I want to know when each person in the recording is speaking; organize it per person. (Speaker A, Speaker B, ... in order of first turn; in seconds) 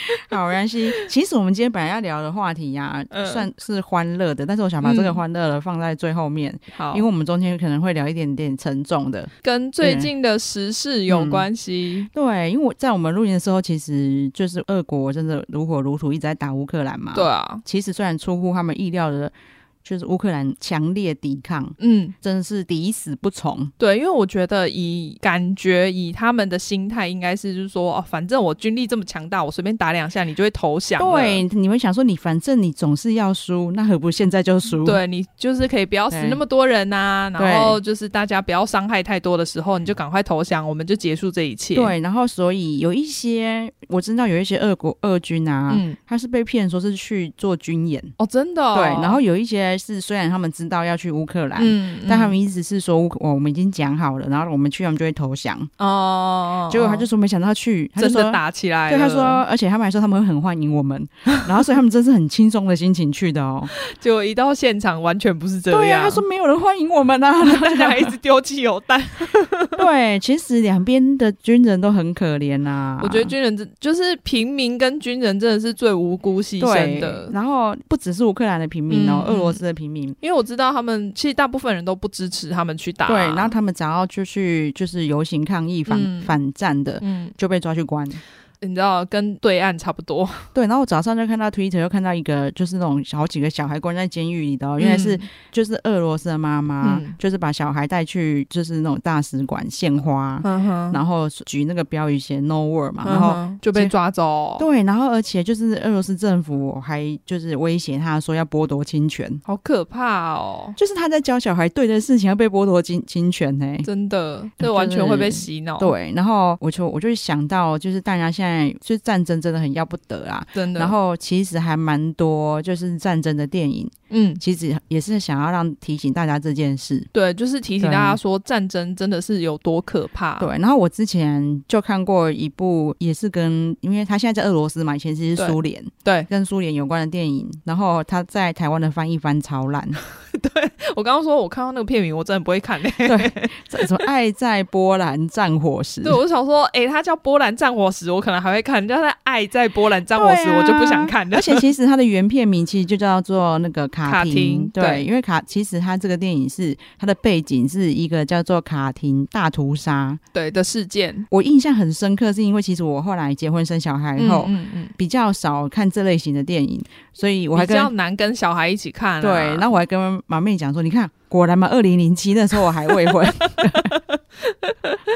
Speaker A: 0.3-9.3, 9.8-10.1, 11.1-11.5, 12.1-23.7, 31.0-35.0, 36.1-36.4, 37.4-37.8, 41.7-48.1, 48.7-55.7, 56.7-63.7, 65.7-68.1, 69.8-73.3, 76.6-80.2, 83.0-88.2, 90.5-103.9, 104.6-109.4, 110.8-113.9, 114.6-127.1, 127.8-128.2, 130.4-140.0, 143.1-146.2, 150.1-160.2, 161.3-167.9, 169.2-174.0
Speaker B: 3.1-3.5, 4.8-5.2, 6.7-7.0, 9.4-12.1, 17.1-17.6, 21.8-22.1, 23.8-31.4, 34.8-41.9, 45.7-46.0, 48.2-49.2, 51.6-52.4, 55.8-57.1, 58.0-59.4, 63.7-66.2, 67.4-69.8, 73.0-77.3, 78.9-79.6, 80.2-83.5, 85.9-86.3, 87.0-87.3, 88.6-90.5, 94.8-95.3, 96.8-97.2, 100.4-101.0, 103.0-104.7, 109.5-110.8, 113.8-115.9, 120.5-120.9, 124.1-124.4, 127.1-130.5, 135.4-136.3, 140.3-144.0, 146.0-151.7, 154.0-155.0, 160.3-161.3, 164.2-164.9, 167.5-169.7, 173.5-175.0